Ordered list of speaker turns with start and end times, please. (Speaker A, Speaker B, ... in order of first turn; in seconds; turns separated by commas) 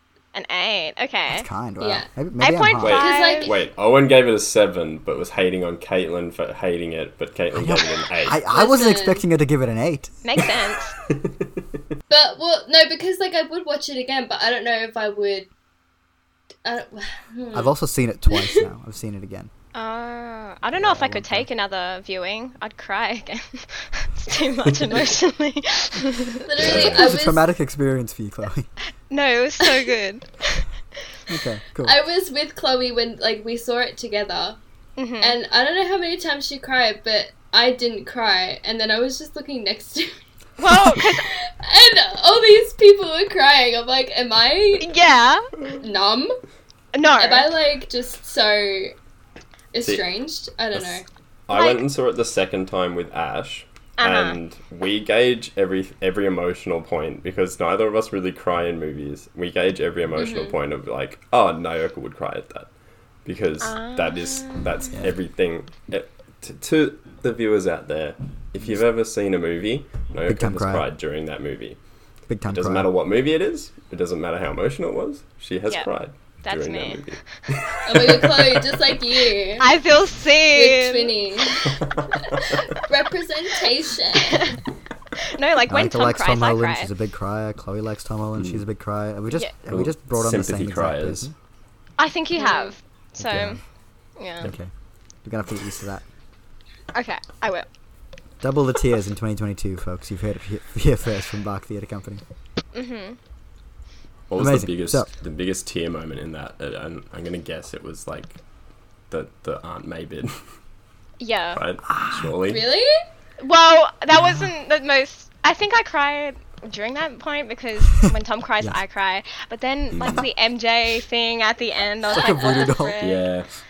Speaker A: 0.3-1.5, Speaker B: 1.3-3.0, Speaker C: 1.8-2.1, Speaker A: 2.4-3.5, Speaker D: 2.8-8.4, Speaker C: 2.9-3.6, Speaker B: 7.5-10.2, Speaker C: 8.5-9.2, Speaker A: 10.2-10.9, Speaker D: 11.1-11.5, Speaker C: 12.1-15.5, Speaker C: 16.6-17.8, Speaker B: 17.5-19.5, Speaker C: 18.3-18.6, Speaker A: 19.8-26.4, Speaker B: 20.8-21.5, Speaker C: 26.4-27.4, Speaker D: 26.6-27.1, Speaker B: 26.6-28.7, Speaker A: 29.1-30.7, Speaker B: 31.3-32.0, Speaker C: 31.8-34.6, Speaker A: 35.0-35.4, Speaker C: 35.2-40.1, Speaker A: 40.6-41.3, Speaker C: 40.9-44.9, Speaker A: 44.8-45.5, Speaker C: 45.8-46.3, Speaker A: 46.9-47.5, Speaker C: 47.2-49.0, Speaker C: 49.7-51.1, Speaker D: 50.8-62.7, Speaker A: 51.5-51.9, Speaker A: 54.0-54.4, Speaker C: 60.2-60.5, Speaker D: 63.2-71.8, Speaker A: 63.6-64.9, Speaker B: 70.3-70.9, Speaker B: 72.3-72.9, Speaker D: 72.5-78.8, Speaker A: 76.4-77.2, Speaker C: 77.8-79.7, Speaker A: 79.6-81.1, Speaker C: 80.5-84.5, Speaker D: 81.6-82.7, Speaker A: 84.2-84.6, Speaker A: 85.2-86.9, Speaker B: 85.7-91.3, Speaker D: 88.4-88.6, Speaker D: 89.7-91.3, Speaker A: 92.0-93.6, Speaker C: 92.4-92.7, Speaker B: 93.2-93.6, Speaker A: 94.2-94.5, Speaker B: 94.4-94.7, Speaker B: 95.2-96.0, Speaker A: 96.9-97.7, Speaker B: 98.4-102.2, Speaker A: 102.7-103.2, Speaker D: 104.3-108.4, Speaker B: 104.4-105.1, Speaker D: 109.1-110.4, Speaker A: 111.2-111.6, Speaker D: 111.5-112.6, Speaker B: 111.9-112.3, Speaker C: 112.5-112.9, Speaker A: 113.4-123.3, Speaker B: 114.1-114.5, Speaker D: 119.9-120.2, Speaker B: 122.1-123.0, Speaker D: 123.0-123.5